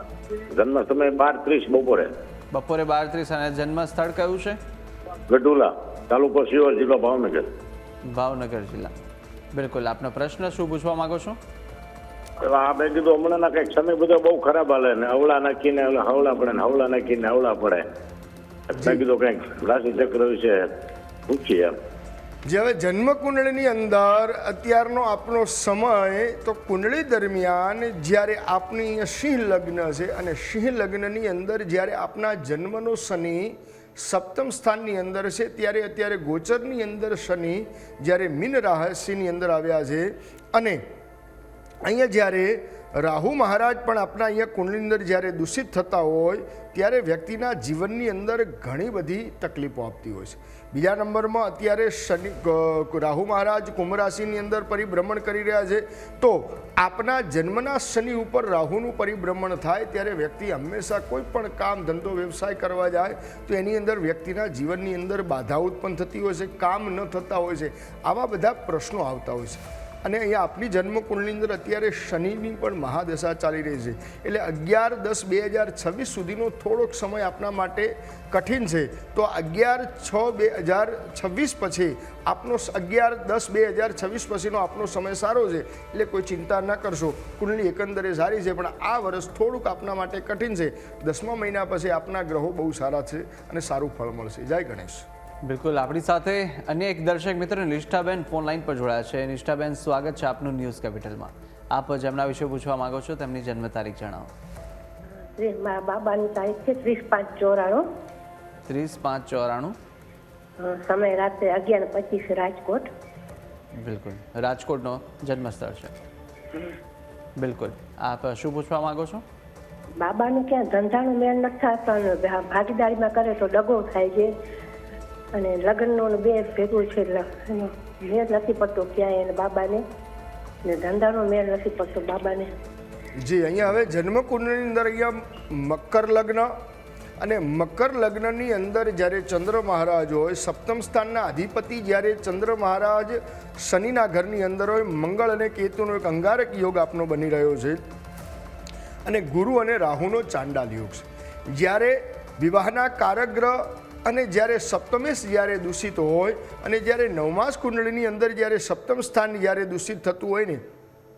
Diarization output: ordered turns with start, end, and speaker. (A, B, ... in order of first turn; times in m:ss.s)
0:00.5-0:02.1 A
0:02.5-0:04.6 B
0:05.3-0:07.5 A
0:08.0-0:08.9 B
0:09.5-0:11.4 B
0:12.4-0:17.8 A
0:18.7-0:20.7 A
0:21.3-0:21.8 A
0:22.4-0:40.8 C
0:41.8-1:35.0 C
1:35.4-1:44.3 B
1:45.4-1:47.8 D
1:48.6-1:49.7 B
1:50.6-1:52.9 D
1:53.8-1:55.9 B
1:57.4-1:59.2 B
2:00.0-2:04.3 D
2:05.3-2:09.8 D
2:10.6-2:12.5 D
2:13.2-2:16.5 C
2:17.2-2:27.8 C
2:29.0-2:40.6 C